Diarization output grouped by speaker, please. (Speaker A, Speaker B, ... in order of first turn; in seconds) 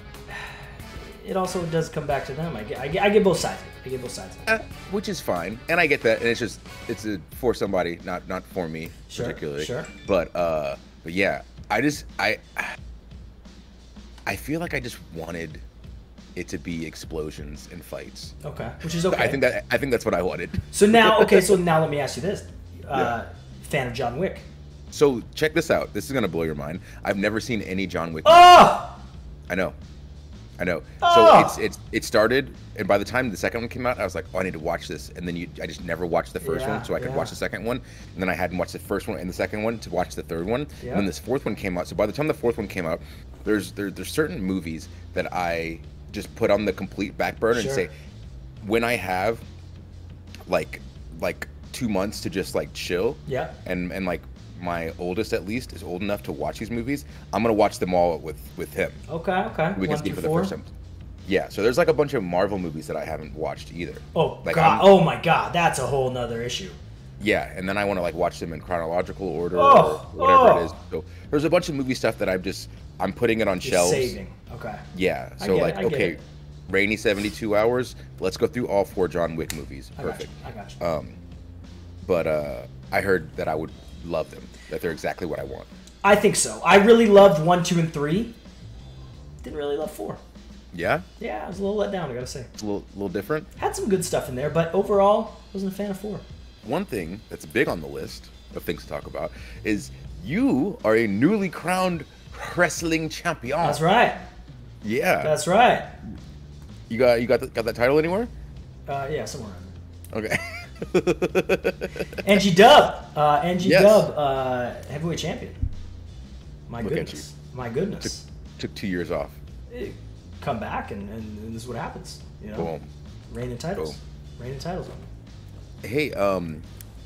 Speaker A: 0.3-4.5, 9.1-9.9, 18.4-19.4, 20.7-24.4, 28.2-29.0, 31.0-31.6, 36.4-37.3, 40.8-41.1, 47.5-47.9, 53.3-53.5, 59.1-60.5, 64.2-66.8, 69.5-70.7, 73.6-74.8, 75.4-76.2, 80.0-80.8, 86.0-88.3, 89.4-90.2, 91.2-92.5, 93.6-96.2, 103.6-104.2, 105.2-105.9, 108.9-109.7, 112.2-115.6, 116.7-118.2, 119.7-122.7, 123.3-125.1
Speaker B: 4.5-12.8, 14.2-15.6, 16.4-18.3, 19.0-21.6, 24.9-28.7, 29.5-29.8, 30.6-47.9, 48.6-49.5, 50.5-59.0, 59.8-60.7, 61.3-65.0, 67.2-74.2, 74.9-81.2, 82.0-85.7, 90.7-91.1, 92.6-93.5, 96.7-103.8, 104.8-105.3, 106.9-108.3, 110.1-112.2, 113.6-114.1, 116.8-117.3, 118.0-119.4, 122.5-122.9, 125.8-126.7